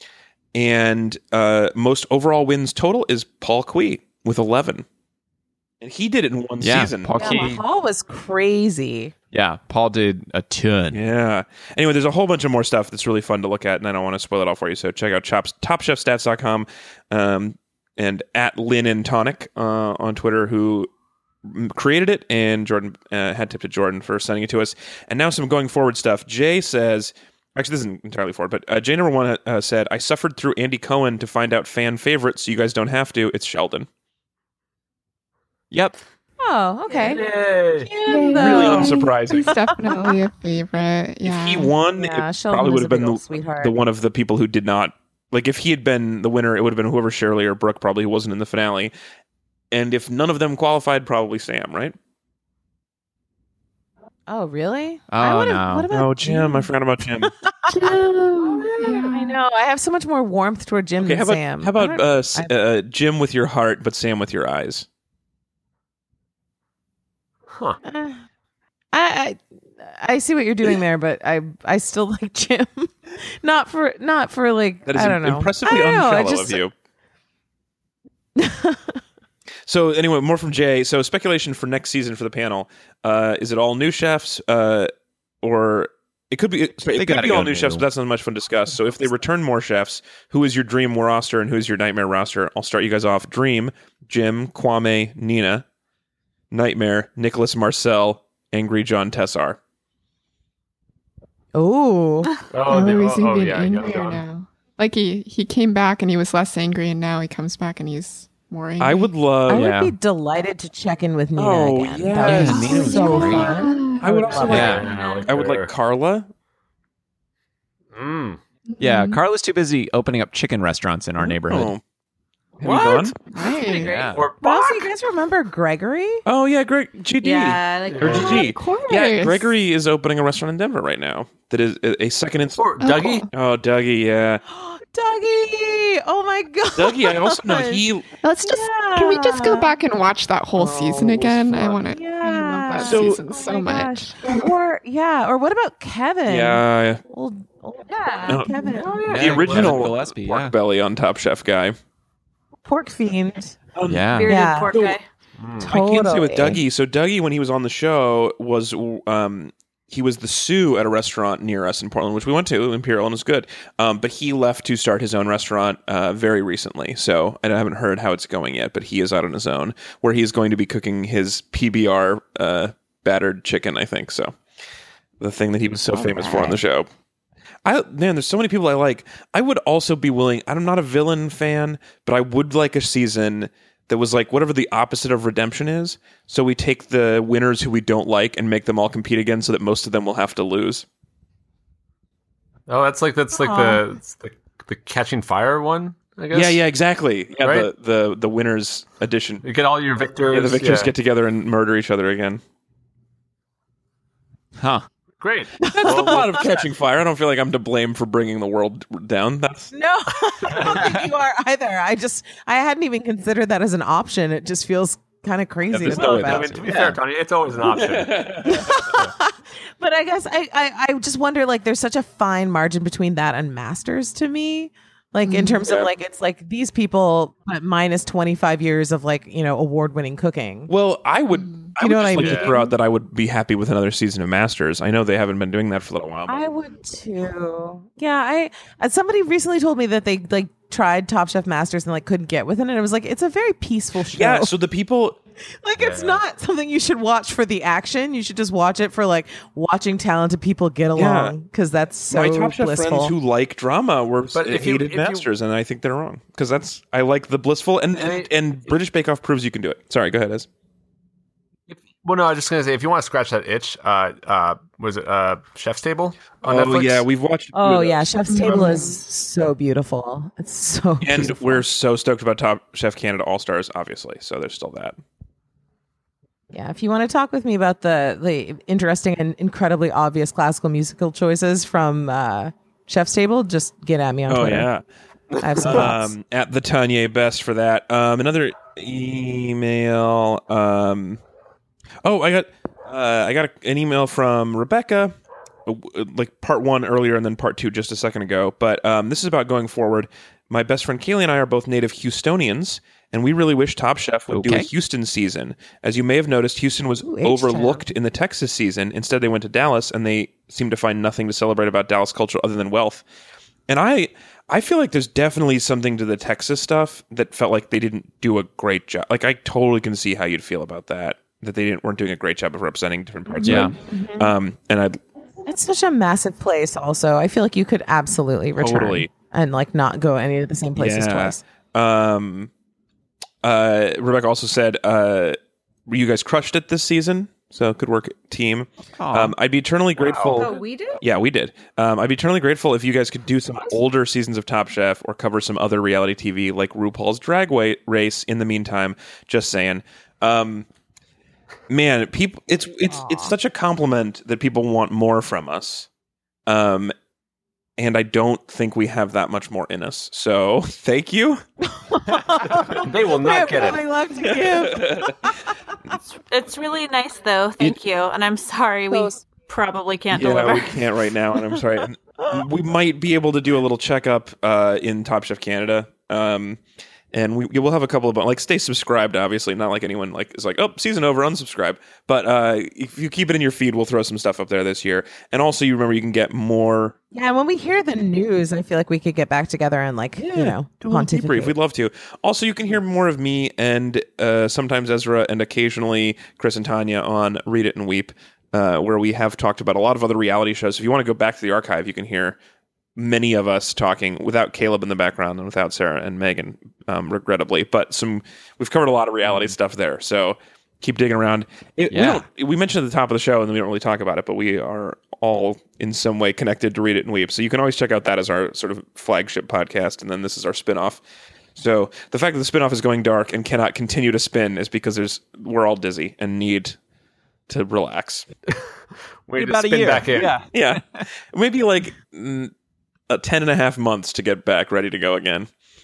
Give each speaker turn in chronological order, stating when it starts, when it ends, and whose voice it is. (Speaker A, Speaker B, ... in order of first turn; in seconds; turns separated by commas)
Speaker A: 0.5-4.9, Speaker A: 5.8-7.6, Speaker B: 6.6-7.6, Speaker C: 7.2-9.1, Speaker B: 9.3-11.0, Speaker A: 10.9-20.9, Speaker A: 21.4-33.9, Speaker B: 35.7-36.0, Speaker C: 36.4-37.2, Speaker D: 37.0-37.9, Speaker C: 37.8-40.1, Speaker E: 38.1-41.8, Speaker A: 38.4-39.5, Speaker A: 41.2-48.9, Speaker C: 42.0-43.8, Speaker A: 49.7-52.0, Speaker C: 54.3-56.7, Speaker B: 55.1-55.9, Speaker A: 55.9-57.3, Speaker C: 57.2-62.5, Speaker E: 57.7-59.4, Speaker A: 61.0-64.9, Speaker D: 67.5-67.8, Speaker C: 67.8-68.2, Speaker C: 68.9-76.6, Speaker A: 74.9-76.7, Speaker C: 78.4-79.0, Speaker A: 79.7-95.6, Speaker B: 86.9-87.9, Speaker A: 96.5-99.6, Speaker C: 101.5-102.3, Speaker D: 102.5-104.2, Speaker E: 102.7-109.1, Speaker A: 108.8-109.7, Speaker C: 109.5-114.8, Speaker B: 109.5-110.0, Speaker A: 111.4-113.3, Speaker B: 112.2-113.6, Speaker E: 112.3-114.1, Speaker A: 114.0-116.3, Speaker D: 114.3-115.7, Speaker B: 114.5-114.9, Speaker F: 114.5-115.3, Speaker D: 117.9-118.4, Speaker E: 118.7-119.2, Speaker B: 118.8-121.7, Speaker A: 121.2-121.8, Speaker A: 122.6-123.3, Speaker C: 122.6-123.1, Speaker E: 123.3-123.9, Speaker F: 123.6-124.2, Speaker B: 123.6-124.3, Speaker D: 124.1-124.9, Speaker C: 124.4-126.2, Speaker A: 126.3-132.8, Speaker F: 127.2-128.8, Speaker D: 127.9-128.4, Speaker E: 128.3-129.5, Speaker D: 132.6-133.3, Speaker E: 132.8-133.3, Speaker A: 133.3-134.4, Speaker C: 134.5-137.8, Speaker A: 136.8-138.1, Speaker E: 138.2-144.5, Speaker C: 138.4-139.7, Speaker C: 140.6-149.0, Speaker A: 140.8-141.7, Speaker A: 142.8-143.2, Speaker A: 146.3-147.0, Speaker F: 147.9-148.6, Speaker A: 148.3-148.5, Speaker D: 148.7-149.9, Speaker B: 149.1-150.6, Speaker A: 149.1-151.8, Speaker C: 152.7-153.6, Speaker A: 153.8-154.1, Speaker B: 153.9-154.3, Speaker F: 154.1-155.0, Speaker C: 154.3-154.8, Speaker A: 154.7-155.0, Speaker D: 155.4-155.7, Speaker A: 155.6-174.4, Speaker C: 155.7-156.6, Speaker A: 175.2-176.9, Speaker B: 175.9-176.6, Speaker A: 177.7-190.8, Speaker D: 192.7-196.6, Speaker C: 193.3-193.8, Speaker A: 196.3-199.4, Speaker D: 197.4-197.7, Speaker D: 199.4-200.9, Speaker A: 200.3-202.4, Speaker B: 204.6-204.9, Speaker D: 205.2-206.7, Speaker C: 205.6-206.5, Speaker A: 205.7-209.7, Speaker C: 209.7-217.0, Speaker A: 210.4-211.1, Speaker A: 215.7-216.9, Speaker D: 215.9-218.3, Speaker A: 217.7-218.9, Speaker C: 218.4-230.7, Speaker E: 225.3-225.7, Speaker A: 230.7-236.4, Speaker E: 231.3-231.8, Speaker C: 231.8-232.7, Speaker D: 232.2-232.5, Speaker C: 236.3-244.5, Speaker A: 244.1-245.2, Speaker C: 245.6-253.1, Speaker D: 245.8-246.2, Speaker A: 251.0-251.3, Speaker A: 252.1-260.5, Speaker D: 254.3-255.3, Speaker D: 258.0-258.8, Speaker D: 261.7-267.1, Speaker A: 266.4-268.0, Speaker C: 267.5-271.6, Speaker E: 268.3-269.0, Speaker A: 271.0-275.0, Speaker C: 276.5-284.7, Speaker A: 284.3-284.8, Speaker C: 285.4-286.1, Speaker A: 285.6-291.2, Speaker A: 292.0-295.1, Speaker A: 295.7-313.1, Speaker B: 304.3-304.7, Speaker C: 307.0-307.9, Speaker A: 313.7-325.0, Speaker C: 323.3-324.3, Speaker B: 323.4-323.8, Speaker C: 325.4-331.4, Speaker A: 328.6-329.1, Speaker A: 330.8-332.5, Speaker A: 333.4-350.7, Speaker B: 339.0-339.4, Speaker D: 340.0-340.6, Speaker F: 340.3-341.0, Speaker A: 351.7-355.9, Speaker C: 352.9-353.3, Speaker A: 356.5-356.9, Speaker A: 357.8-361.4, Speaker C: 361.7-365.5, Speaker D: 362.7-363.8, Speaker A: 364.2-365.3, Speaker F: 366.3-370.8, Speaker C: 368.9-369.2, Speaker A: 370.1-376.6, Speaker C: 372.2-372.4, Speaker A: 377.1-387.0, Speaker C: 387.1-391.5, Speaker A: 390.2-402.4, Speaker A: 403.0-421.0, Speaker B: 411.9-412.2, Speaker A: 421.6-426.8, Speaker A: 427.5-428.3, Speaker D: 428.5-430.4, Speaker B: 429.4-431.0, Speaker A: 430.3-432.5, Speaker A: 433.1-435.5